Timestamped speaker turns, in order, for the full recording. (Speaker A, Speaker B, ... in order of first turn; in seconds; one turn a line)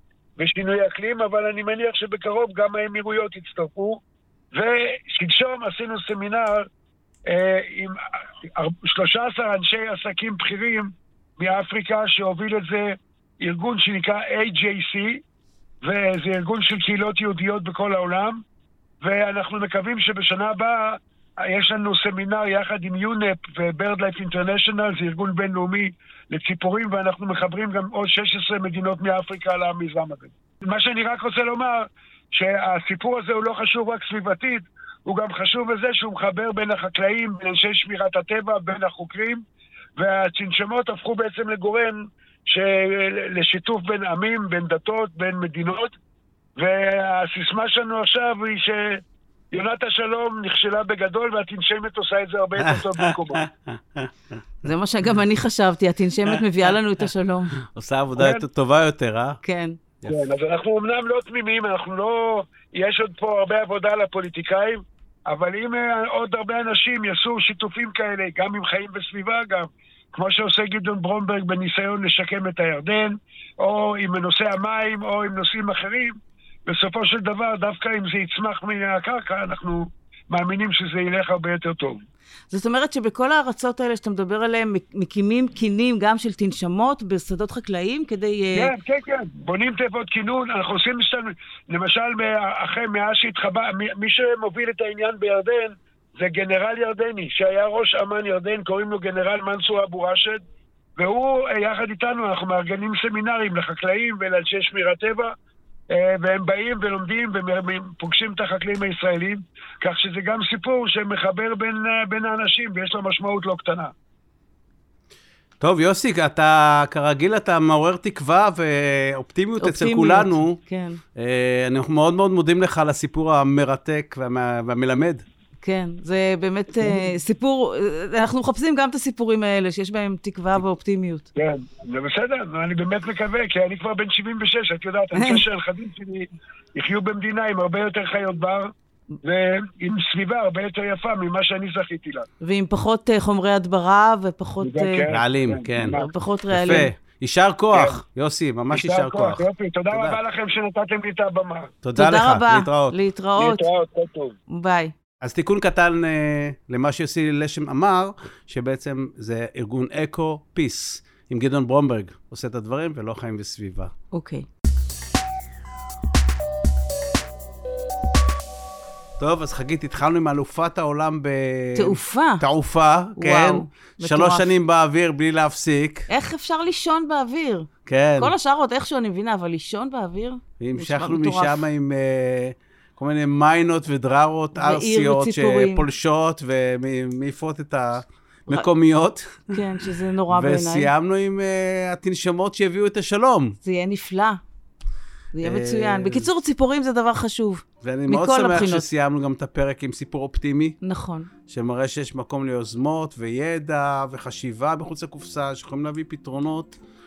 Speaker A: 0.4-4.0
Speaker A: 4.5-6.7
Speaker A: 7.2-8.0
Speaker A: 8.6-15.2
Speaker A: 15.8-18.4
Speaker A: 19.0-39.4
Speaker A: 40.0-45.9
Speaker A: 46.6-49.0
Speaker A: 49.5-53.4
Speaker B: 52.6-54.3
Speaker C: 54.6-57.6
Speaker B: 57.6-59.4
Speaker A: 58.2-58.4
Speaker C: 59.4-59.8
Speaker A: 60.0-82.0
Speaker C: 82.5-88.7
Speaker A: 88.5-100.4
Speaker A: 101.0-105.3
Speaker A: 105.9-113.9
Speaker B: 115.6-120.6
Speaker C: 119.6-121.0
Speaker B: 121.1-125.2
Speaker C: 125.6-131.3
Speaker A: 131.3-138.7
Speaker C: 135.1-135.4
Speaker A: 139.2-142.3
Speaker C: 142.4-145.1
Speaker A: 144.6-146.1
Speaker B: 145.1-146.0
Speaker C: 145.8-146.9
Speaker B: 146.5-150.2
Speaker A: 147.7-148.0
Speaker A: 148.7-151.7
Speaker B: 151.8-152.9
Speaker C: 151.9-153.7
Speaker A: 153.4-154.4
Speaker C: 154.5-154.9
Speaker B: 155.2-163.9
Speaker C: 164.1-164.4
Speaker B: 169.2-176.1
Speaker C: 171.8-172.4
Speaker C: 173.2-174.5
Speaker C: 176.1-181.6
Speaker B: 177.8-178.3
Speaker B: 180.6-189.6
Speaker C: 184.6-185.9
Speaker C: 189.5-190.9
Speaker B: 190.3-193.6
Speaker C: 193.6-194.4
Speaker C: 195.3-198.9
Speaker B: 195.4-196.3
Speaker B: 197.8-200.8
Speaker C: 200.8-201.3
Speaker B: 201.5-206.8